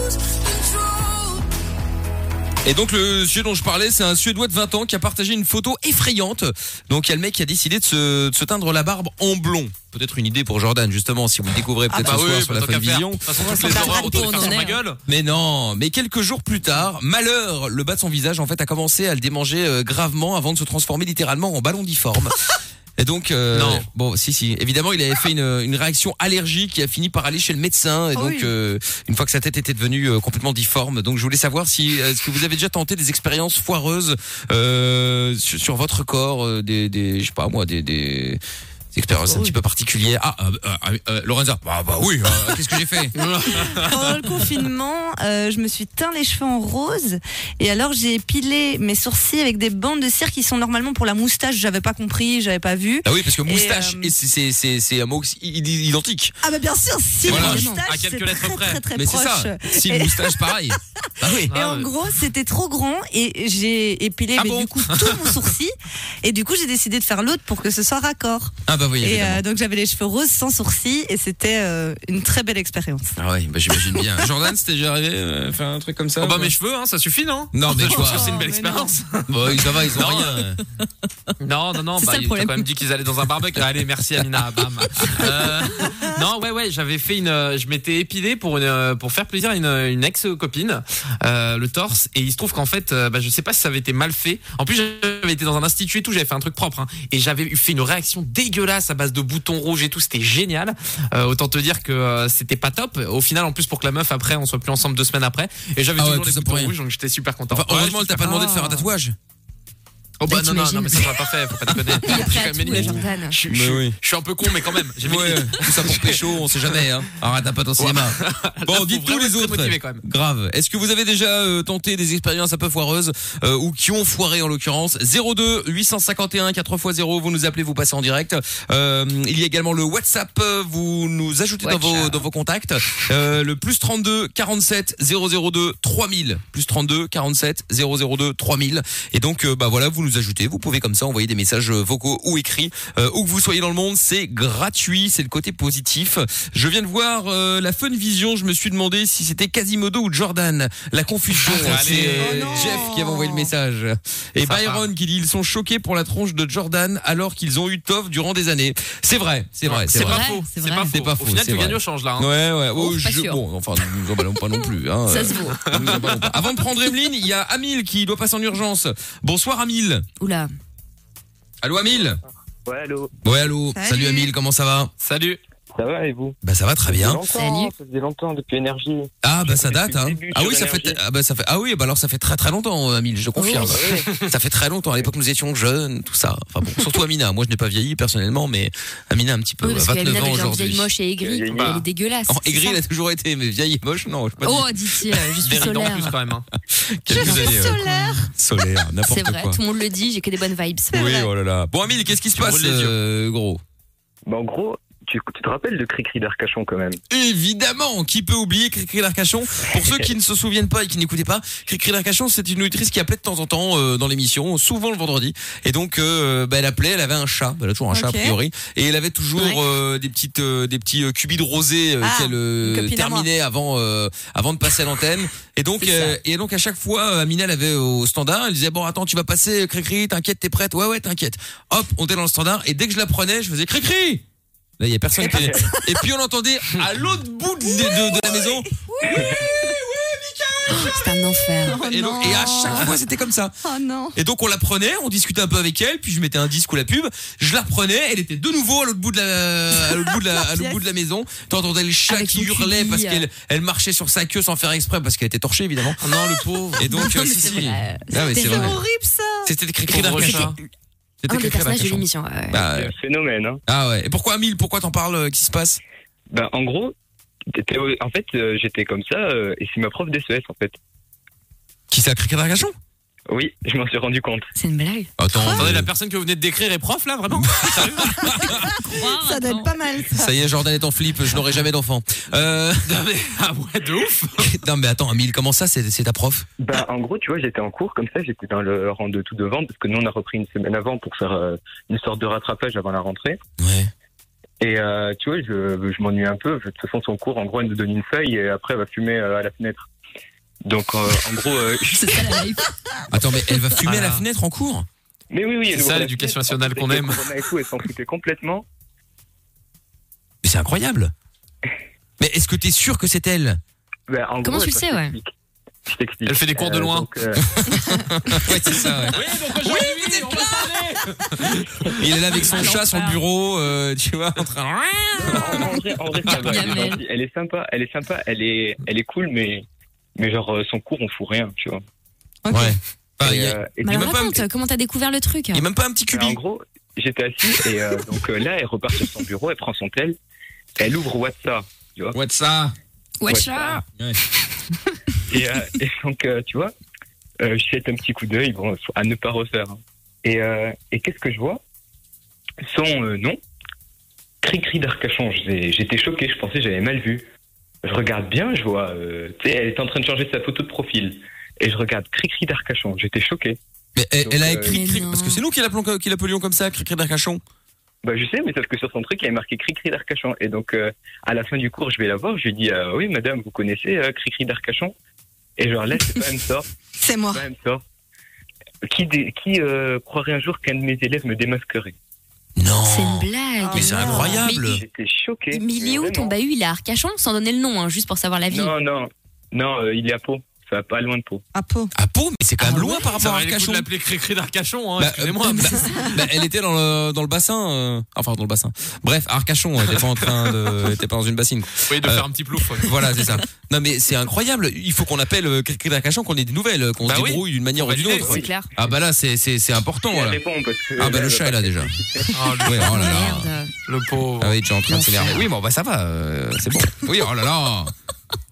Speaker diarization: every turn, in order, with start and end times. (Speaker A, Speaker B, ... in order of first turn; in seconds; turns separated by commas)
Speaker A: 2.6-13.5, Speaker B: 11.9-15.0, Speaker C: 13.5-14.6, Speaker D: 13.5-14.8, Speaker A: 15.1-22.4, Speaker A: 23.0-38.4, Speaker B: 23.5-23.9, Speaker C: 28.1-28.5, Speaker A: 38.9-43.2, Speaker B: 43.2-44.2, Speaker C: 43.5-54.1, Speaker A: 53.0-56.4, Speaker C: 56.4-73.2, Speaker A: 57.3-57.7, Speaker D: 57.3-57.9, Speaker B: 57.3-58.8, Speaker A: 58.9-61.5, Speaker B: 61.5-61.9, Speaker A: 64.4-64.7, Speaker B: 64.9-65.3, Speaker A: 68.7-69.4, Speaker A: 73.2-76.5, Speaker B: 76.2-79.3, Speaker A: 77.5-78.4, Speaker C: 77.8-78.9, Speaker A: 79.3-80.6, Speaker B: 79.9-80.4, Speaker B: 81.4-108.6, Speaker D: 82.0-82.7, Speaker A: 85.2-85.8, Speaker A: 106.0-106.8, Speaker A: 107.5-109.2, Speaker D: 108.3-108.8, Speaker B: 110.2-116.8, Speaker D: 110.3-111.1, Speaker A: 111.9-114.0, Speaker D: 112.0-113.4, Speaker A: 115.0-160.2, Speaker B: 117.8-120.0, Speaker D: 131.6-132.1, Speaker B: 151.4-152.8, Speaker C: 152.2-153.5, Speaker B: 154.4-154.9, Speaker B: 159.7-162.3, Speaker D: 159.9-160.9, Speaker A: 160.9-170.1, Speaker D: 162.8-163.4, Speaker D: 165.1-165.7, Speaker B: 165.7-166.5, Speaker D: 170.2-170.5, Speaker A: 171.6-172.2, Speaker E: 172.7-173.1, Speaker A: 173.2-174.9, Speaker C: 173.7-174.3, Speaker B: 175.0-175.4, Speaker E: 175.8-181.0, Speaker A: 176.4-177.2, Speaker D: 177.3-177.7, Speaker A: 179.2-190.9, Speaker D: 183.4-183.8, Speaker E: 183.7-184.1, Speaker D: 189.6-192.8, Speaker E: 191.2-191.8, Speaker B: 191.6-191.8, Speaker A: 192.3-195.9, Speaker D: 194.4-196.2, Speaker B: 195.4-196.5, Speaker A: 196.7-199.6, Speaker C: 197.1-198.3, Speaker D: 197.1-198.0, Speaker D: 199.1-201.2, Speaker A: 200.9-203.6, Speaker C: 200.9-201.3, Speaker B: 202.3-202.9, Speaker E: 204.3-207.0, Speaker A: 207.1-234.2, Speaker E: 209.8-210.1, Speaker C: 217.9-218.3, Speaker C: 222.0-223.3, Speaker D: 225.8-226.2, Speaker A: 234.8-243.5, Speaker C: 235.2-236.0, Speaker E: 235.3-235.6, Speaker C: 237.7-239.7, Speaker E: 239.1-239.4, Speaker D: 240.7-241.8, Speaker C: 241.6-243.0, Speaker C: 243.6-244.2, Speaker A: 244.2-256.0, Speaker C: 249.8-250.8, Speaker D: 252.1-253.3, Speaker B: 256.0-256.9, Speaker A: 256.8-258.8, Speaker C: 256.9-257.6, Speaker D: 256.9-258.8, Speaker C: 258.2-259.5, Speaker A: 259.4-260.6, Speaker B: 259.9-260.6, Speaker A: 261.2-262.9, Speaker D: 261.3-262.6, Speaker E: 262.6-263.6, Speaker A: 263.7-265.8, Speaker E: 266.3-266.9, Speaker E: 267.5-270.8, Speaker A: 271.9-272.8, Speaker E: 273.3-274.5, Speaker D: 274.6-275.1, Speaker A: 275.2-275.9, Speaker B: 275.5-278.5, Speaker A: 277.4-278.6, Speaker D: 278.4-279.7, Speaker C: 278.5-280.3, Speaker A: 280.1-283.0, Speaker B: 282.9-284.6, Speaker A: 284.4-286.5, Speaker E: 286.6-293.4, Speaker A: 293.6-293.9, Speaker E: 294.6-299.9, Speaker E: 300.6-302.4, Speaker D: 301.9-302.7, Speaker A: 303.1-304.9, Speaker B: 303.8-304.2, Speaker E: 305.3-308.7, Speaker B: 305.7-307.3, Speaker A: 310.4-311.1, Speaker A: 312.2-313.6, Speaker E: 314.1-315.3, Speaker D: 314.4-315.1, Speaker E: 315.9-317.5, Speaker B: 316.3-317.1, Speaker A: 317.6-319.9, Speaker B: 319.1-321.9, Speaker A: 322.0-326.8, Speaker D: 322.5-323.2, Speaker E: 325.2-329.6, Speaker D: 326.3-327.0, Speaker E: 330.2-331.8, Speaker C: 332.4-332.8, Speaker A: 332.5-334.4, Speaker E: 333.2-334.1, Speaker D: 333.8-335.6, Speaker A: 335.5-336.4, Speaker E: 336.1-340.2, Speaker E: 340.8-342.2, Speaker A: 342.1-342.8, Speaker D: 343.2-343.8, Speaker E: 343.3-343.8, Speaker E: 345.3-346.7, Speaker E: 347.4-351.6, Speaker E: 352.6-353.4, Speaker E: 354.4-357.3, Speaker E: 357.8-363.6, Speaker A: 364.0-367.4, Speaker E: 364.2-364.8, Speaker D: 364.7-365.4, Speaker E: 368.0-374.9, Speaker E: 375.6-376.7, Speaker C: 377.0-377.4, Speaker E: 377.3-377.8, Speaker E: 378.9-381.9, Speaker A: 382.6-384.8, Speaker D: 382.9-384.8, Speaker C: 383.6-384.4, Speaker E: 384.7-386.3, Speaker D: 385.5-388.7, Speaker E: 388.5-391.4, Speaker C: 391.5-391.9, Speaker A: 391.9-393.9, Speaker D: 392.7-393.0, Speaker B: 393.0-396.1, Speaker A: 395.0-410.4, Speaker B: 399.9-400.5, Speaker B: 401.9-403.0, Speaker B: 407.0-408.3, Speaker D: 408.2-408.7, Speaker E: 410.1-412.3, Speaker A: 411.0-411.9, Speaker B: 412.3-413.1, Speaker A: 412.6-413.5, Speaker D: 412.8-413.7, Speaker B: 413.9-414.6, Speaker A: 414.4-417.9, Speaker D: 414.9-415.5